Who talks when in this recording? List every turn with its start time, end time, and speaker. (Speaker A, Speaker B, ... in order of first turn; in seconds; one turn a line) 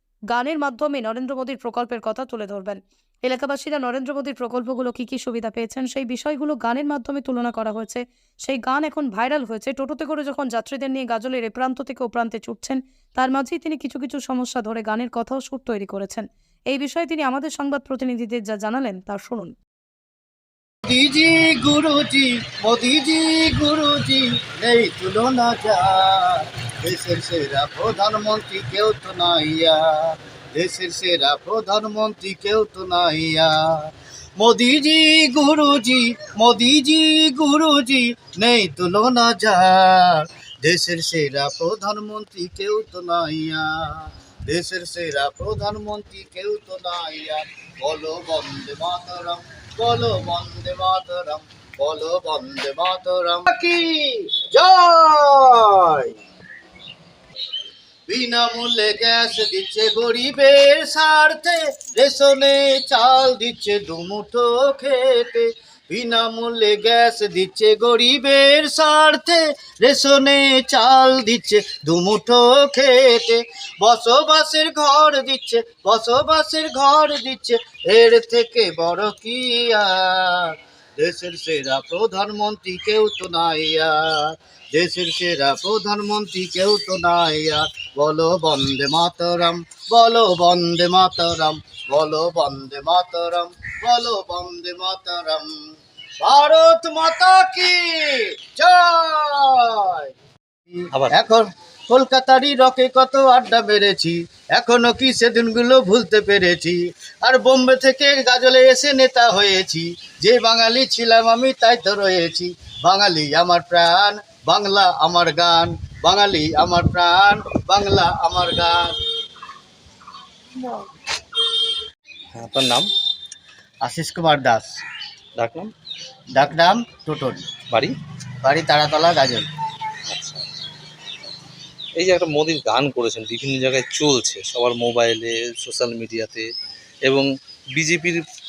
Speaker A: 0.3-19.5
Speaker B: 20.9-56.1
Speaker B: 58.1-95.6
Speaker B: 96.2-100.1
Speaker B: 100.7-119.0
Speaker C: 120.6-120.9
Speaker C: 122.3-122.9
Speaker B: 123.8-124.8
Speaker C: 125.4-125.7
Speaker B: 126.3-127.5
Speaker B: 128.4-129.5
Speaker C: 130.1-130.4
Speaker C: 132.0-136.5
Speaker C: 137.1-138.2